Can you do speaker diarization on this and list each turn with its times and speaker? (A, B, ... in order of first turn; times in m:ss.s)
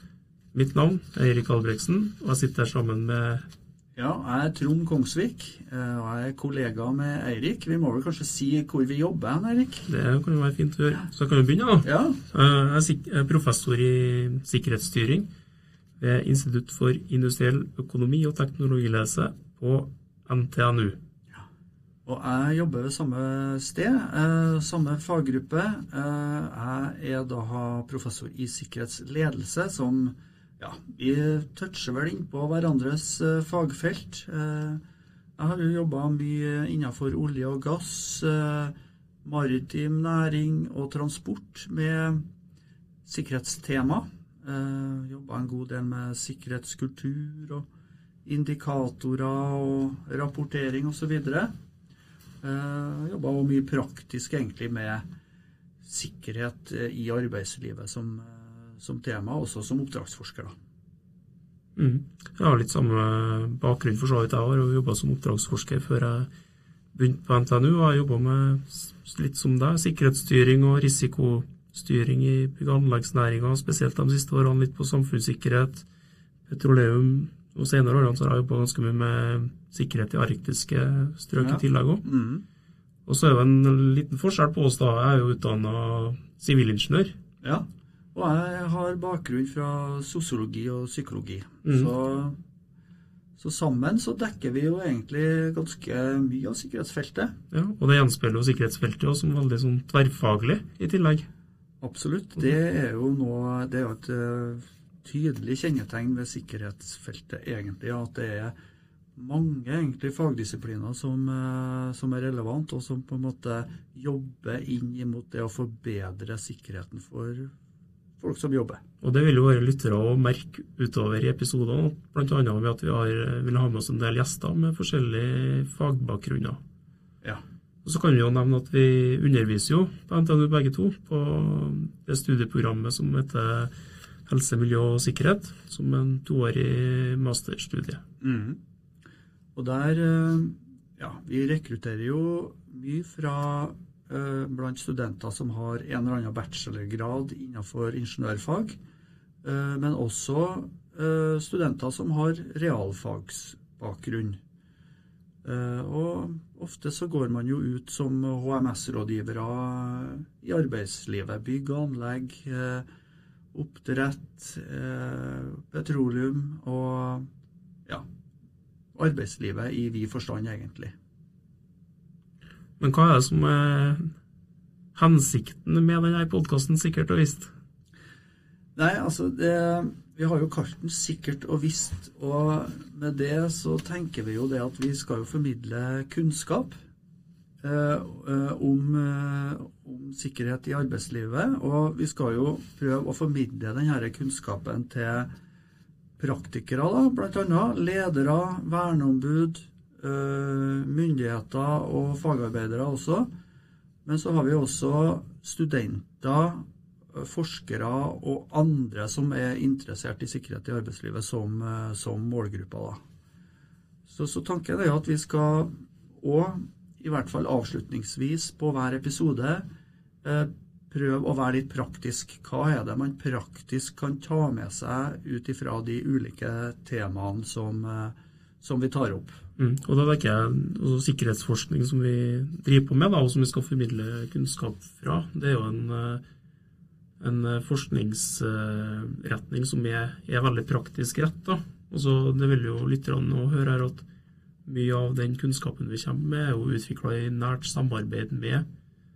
0:00.5-0:03.4 A
0:04.0-0:09.9 B
0:09.9-0:15.3 A
0:11.8-0:12.2 B
0:16.0-0:21.0 A
0:22.0-0:34.8 B
0:35.4-0:42.2 B
0:43.0-0:47.6 B
0:48.2-0:51.5 B
0:52.4-0:55.0 B
0:55.8-1:00.5 B
1:01.8-1:06.3 A
1:06.9-1:15.8 A
1:16.5-1:22.0 A
1:21.4-1:22.4 B
1:23.0-1:27.1 A
1:27.4-1:32.4 B
1:33.4-1:37.3 B
1:37.5-1:41.2 A
1:41.8-1:48.5 B
1:49.2-1:57.5 B
1:58.2-1:58.8 B
1:59.0-2:06.6 A
2:07.8-2:13.7 A
2:14.2-2:18.0 A
2:18.2-2:18.6 B
2:19.5-2:28.8 B
2:29.4-2:34.4 B
2:35.4-2:42.8 B
2:43.5-2:47.3 B
2:48.9-2:50.9 B
2:52.8-2:54.1 A
2:54.9-2:57.5 A
2:58.8-3:06.7 B
3:07.6-3:15.3 B
3:16.2-3:23.3 B
3:24.0-3:33.0 B
3:34.1-3:39.6 B
3:40.2-3:49.4 B
3:49.6-3:56.2 A
3:57.2-4:04.0 A
4:04.6-4:08.6 A